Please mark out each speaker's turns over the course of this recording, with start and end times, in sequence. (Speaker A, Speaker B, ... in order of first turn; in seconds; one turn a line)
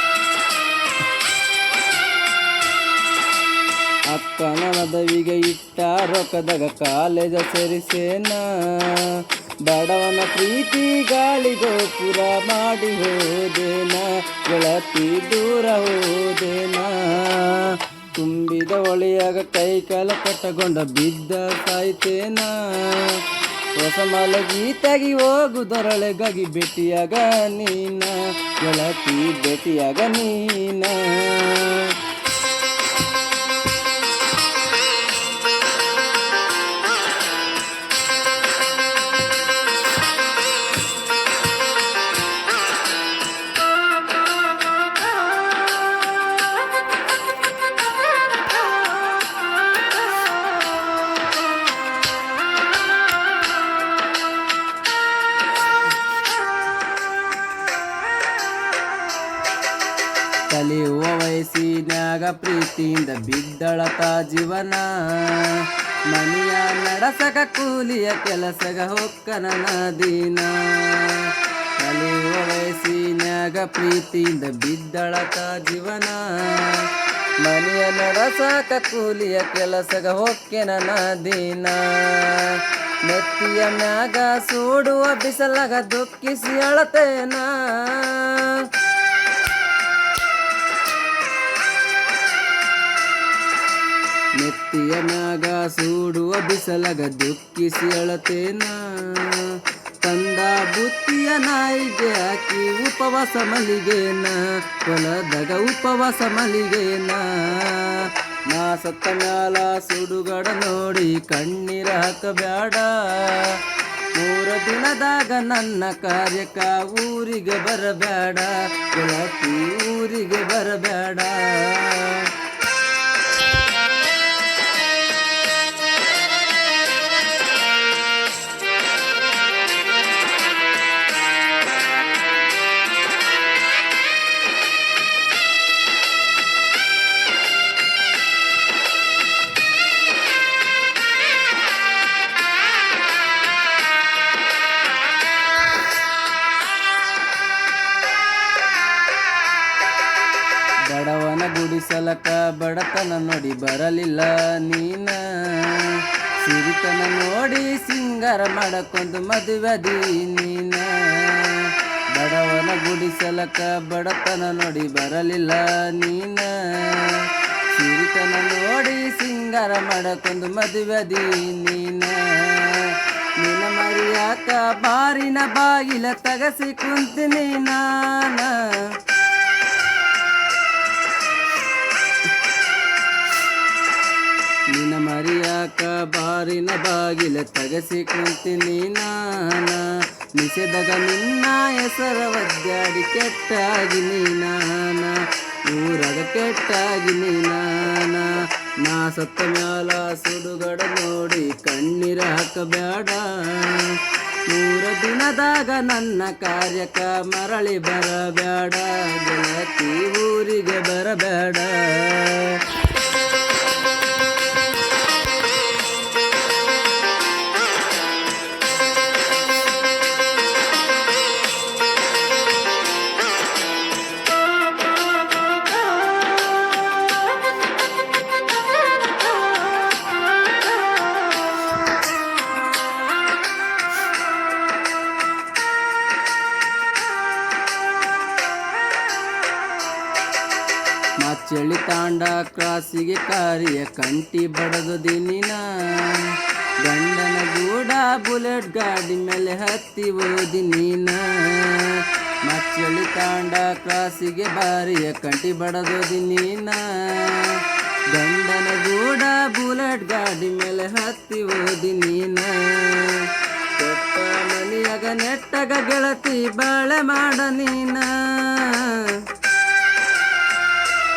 Speaker A: 4.1-32.0
Speaker A: 60.5-88.7
Speaker A: 94.3-122.3
Speaker A: 150.8-179.0
Speaker A: 184.7-212.7
Speaker A: 241.2-269.3